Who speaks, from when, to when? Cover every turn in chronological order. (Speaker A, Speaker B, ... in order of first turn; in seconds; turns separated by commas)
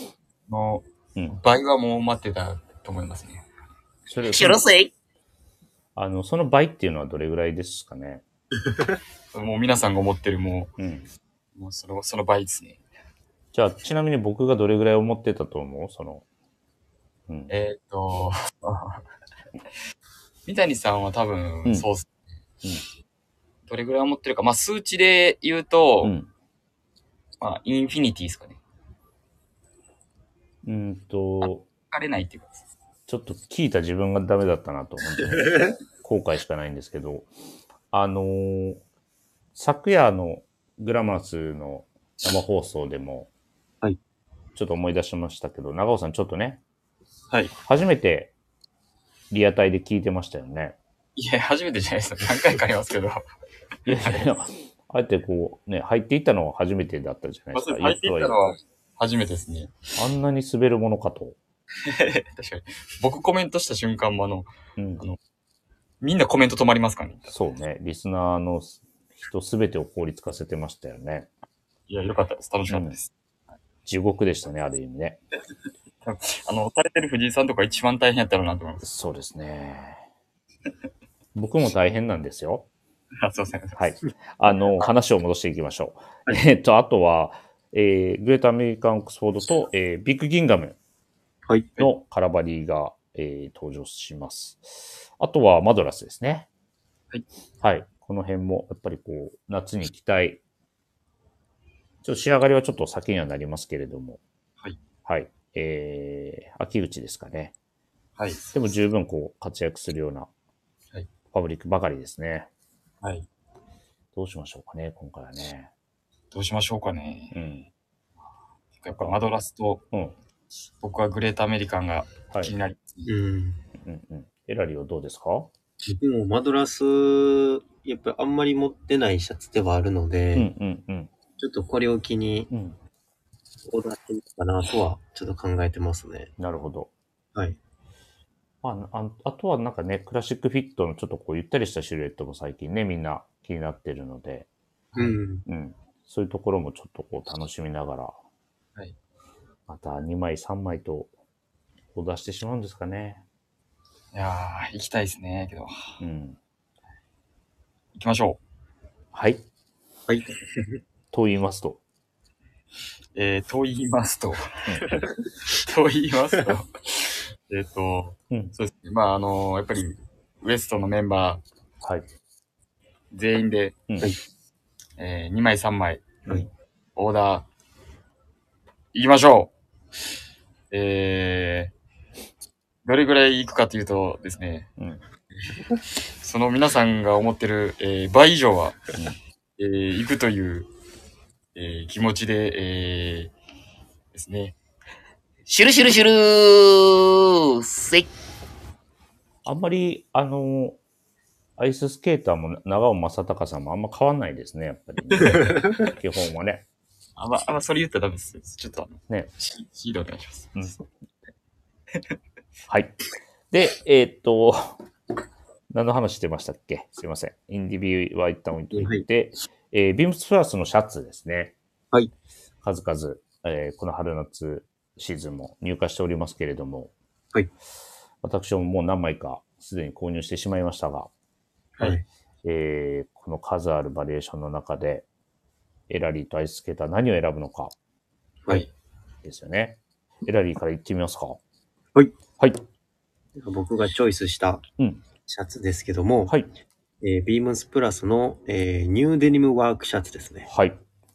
Speaker A: 0.5-3.4, Speaker B: 4.1-4.6, Speaker C: 4.3-4.9, Speaker B: 6.0-8.2, Speaker A: 9.3-10.7, Speaker B: 10.8-11.1, Speaker A: 11.5-12.8, Speaker B: 13.5-16.2, Speaker B: 17.3-17.5, Speaker A: 17.5-19.0, Speaker A: 20.4-22.2, Speaker A: 23.7-26.1, Speaker B: 26.0-26.3, Speaker A: 27.4-28.6, Speaker B: 30.6-31.6, Speaker A: 31.4-32.6, Speaker B: 33.1-37.3, Speaker B: 37.9-38.8, Speaker B: 39.5-43.3, Speaker B: 44.5-46.6, Speaker B: 47.6-48.3, Speaker B: 49.3-50.8, Speaker A: 51.1-53.2, Speaker B: 53.9-58.4, Speaker A: 53.9-54.3, Speaker A: 57.5-59.8, Speaker B: 60.0-61.4, Speaker A: 61.8-65.2, Speaker B: 64.8-65.0, Speaker A: 66.0-67.3, Speaker B: 67.3-71.3, Speaker A: 71.9-73.1, Speaker B: 72.7-73.0, Speaker B: 73.8-75.2, Speaker A: 76.0-78.9, Speaker B: 78.8-80.0, Speaker B: 81.3-82.7, Speaker A: 83.2-83.8, Speaker B: 83.8-90.8, Speaker B: 91.8-96.5, Speaker B: 97.6-100.4, Speaker B: 102.0-104.2, Speaker B: 105.0-107.5, Speaker A: 108.2-108.5, Speaker B: 108.5-110.3, Speaker B: 111.3-112.5, Speaker A: 113.0-113.3, Speaker B: 114.1-115.7, Speaker A: 116.3-117.4, Speaker B: 117.3-117.7, Speaker A: 118.8-119.8, Speaker B: 118.9-119.2, Speaker A: 120.8-123.1, Speaker D: 123.0-123.6, Speaker B: 123.8-125.5, Speaker D: 125.8-130.5, Speaker B: 130.3-131.1, Speaker D: 131.4-132.5, Speaker B: 132.5-132.8, Speaker D: 133.7-136.3, Speaker B: 136.4-136.9, Speaker B: 138.6-144.5, Speaker A: 144.9-145.2, Speaker D: 144.9-145.4, Speaker B: 145.5-148.2, Speaker B: 149.7-151.1, Speaker B: 151.9-153.2, Speaker A: 154.1-156.0, Speaker B: 156.0-156.4, Speaker A: 157.9-158.4, Speaker B: 159.1-159.4, Speaker D: 160.1-160.3, Speaker B: 161.1-161.8, Speaker A: 163.1-171.4, Speaker B: 171.8-172.1, Speaker A: 173.1-173.8, Speaker A: 175.0-176.3, Speaker A: 176.9-177.5, Speaker A: 178.9-179.5, Speaker A: 180.7-181.7, Speaker A: 182.8-184.7, Speaker A: 186.2-189.0, Speaker A: 189.6-190.7, Speaker A: 191.5-193.3, Speaker A: 194.1-194.6, Speaker C: 195.5-198.1, Speaker B: 199.4-200.8, Speaker B: 201.6-206.6, Speaker A: 207.2-210.8, Speaker B: 212.7-213.0, Speaker B: 213.5-214.8, Speaker B: 215.7-221.5, Speaker D: 218.7-219.0, Speaker B: 222.6-226.9, Speaker B: 228.2-231.1, Speaker D: 231.8-232.0, Speaker B: 232.4-235.1, Speaker B: 235.9-237.7, Speaker B: 239.2-241.4, Speaker D: 243.3-244.6, Speaker D: 245.2-246.3, Speaker D: 247.0-250.5, Speaker B: 250.5-250.8